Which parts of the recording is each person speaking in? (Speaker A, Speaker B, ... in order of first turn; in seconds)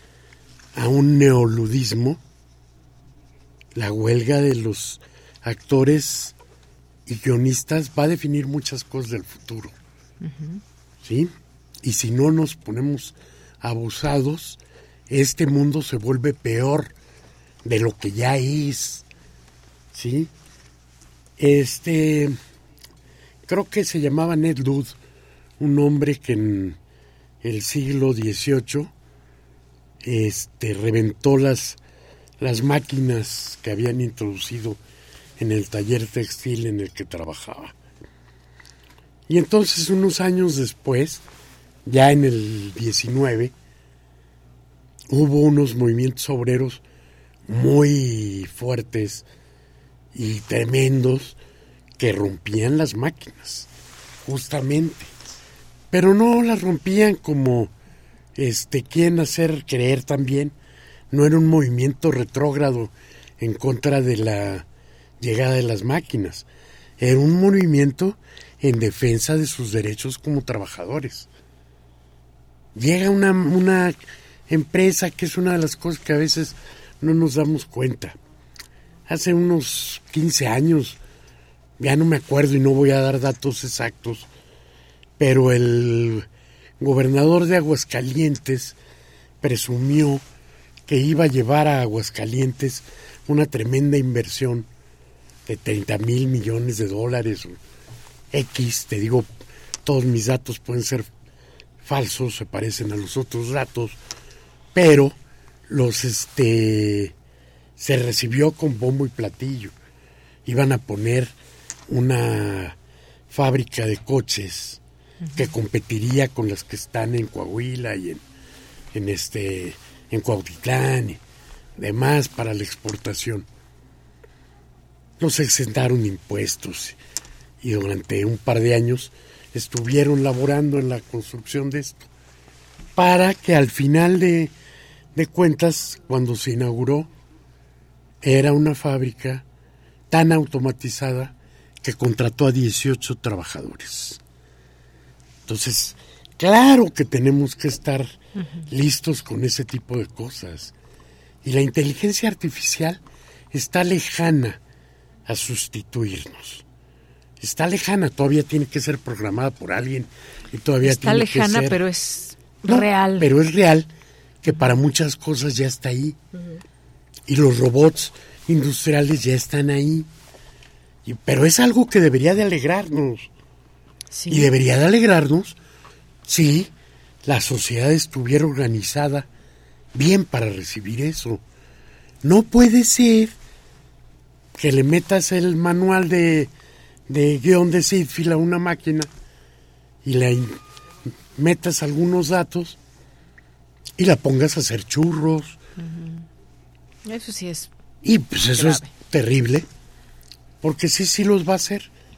Speaker A: 0.7-2.2, 3.7-6.3, 7.1-9.7, 11.0-11.3, 11.8-14.6, 15.1-16.9, 17.6-19.0, 19.9-20.3, 21.4-22.4, 23.5-24.9, 25.6-26.8, 27.4-28.9, 30.0-31.8, 32.4-34.8, 35.4-37.7, 39.3-41.2, 41.9-43.5, 45.1-46.8, 47.5-49.2, 50.1-51.4, 52.0-53.7, 54.2-55.1, 55.9-57.7, 58.4-60.5, 61.1-64.6, 65.2-66.4, 67.0-71.3, 72.8-74.0, 74.5-78.2, 79.1-81.0, 81.8-84.3, 85.2-86.2, 86.8-88.8, 89.4-90.2, 90.9-94.7, 95.5-97.6, 98.3-99.3, 99.8-101.1, 101.8-104.0, 104.7-105.1, 105.7-107.1, 107.8-109.7, 110.5-111.3, 111.9-112.7, 113.3-114.8, 115.3-118.2, 118.9-121.2, 121.8-123.5, 125.2-127.0, 127.6-132.0, 132.9-134.5, 135.2-137.1, 138.2-139.4, 140.1-141.3, 141.8-144.2, 145.5-148.1, 148.7-150.7, 151.4-153.0, 153.5-154.6, 155.3-156.6, 157.4-161.8, 162.7-163.9, 164.4-166.2, 167.3-170.1, 171.0-173.3, 174.3-175.5, 176.3-176.7, 177.2-179.3, 179.9-181.4, 182.2-183.3, 184.5-186.5, 187.1-189.1, 190.0-190.6, 191.4-192.8, 194.0-195.6, 198.0-199.7, 200.6-201.9
Speaker B: 10.2-10.6, 115.2-115.5, 148.4-148.7, 160.8-163.3, 164.5-164.8, 174.1-174.5, 195.8-196.2, 197.1-197.7, 198.5-198.9